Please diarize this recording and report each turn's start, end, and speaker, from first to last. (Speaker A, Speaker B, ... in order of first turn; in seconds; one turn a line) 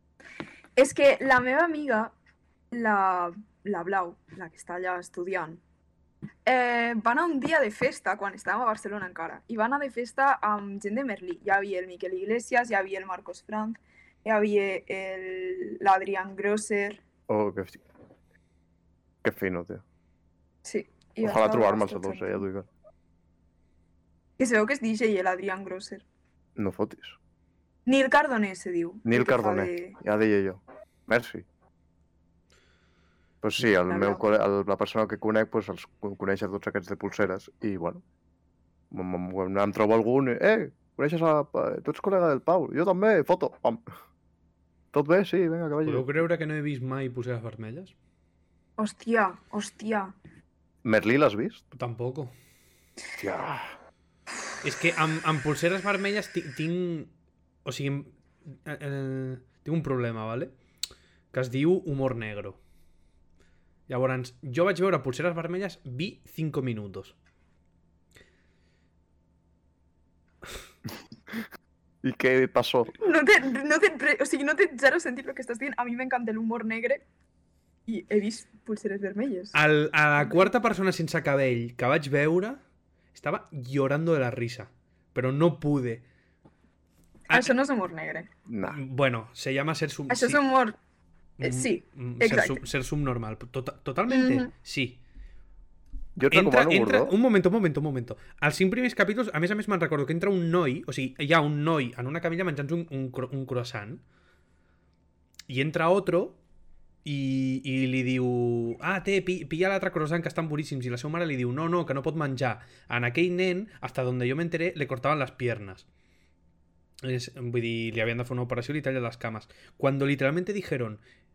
Speaker A: 0.8-2.1
Speaker A: 2.7-5.6
Speaker A: 6.5-17.0
Speaker B: 17.3-17.8
Speaker B: 19.2-19.8
Speaker A: 20.6-22.4
Speaker B: 21.2-22.7
Speaker A: 24.4-26.0
Speaker B: 26.6-27.2
Speaker A: 27.9-30.0
Speaker B: 29.1-31.4
Speaker B: 33.4-38.0
Speaker A: 33.8-34.2
Speaker B: 38.9-43.8
Speaker B: 44.9-46.1
Speaker C: 45.8-47.9
Speaker A: 48.8-50.1
Speaker B: 50.8-51.6
Speaker C: 51.7-52.3
Speaker B: 53.2-53.7
Speaker C: 54.6-57.1
Speaker C: 57.6-60.5
Speaker C: 61.3-62.6
Speaker C: 63.9-67.2
Speaker B: 72.0-72.9
Speaker A: 73.0-77.0
Speaker A: 77.9-79.5
Speaker C: 79.5-82.6
Speaker C: 83.1-86.0
Speaker A: 87.3-88.3
Speaker B: 88.5-88.8
Speaker C: 88.7-90.4
Speaker A: 90.1-90.8
Speaker C: 91.4-95.0
Speaker A: 91.4-92.6
Speaker A: 94.1-94.5
Speaker B: 96.2-97.1
Speaker C: 96.3-104.0
Speaker C: 105.5-106.4
Speaker C: 107.0-115.9
Speaker C: 117.0-121.0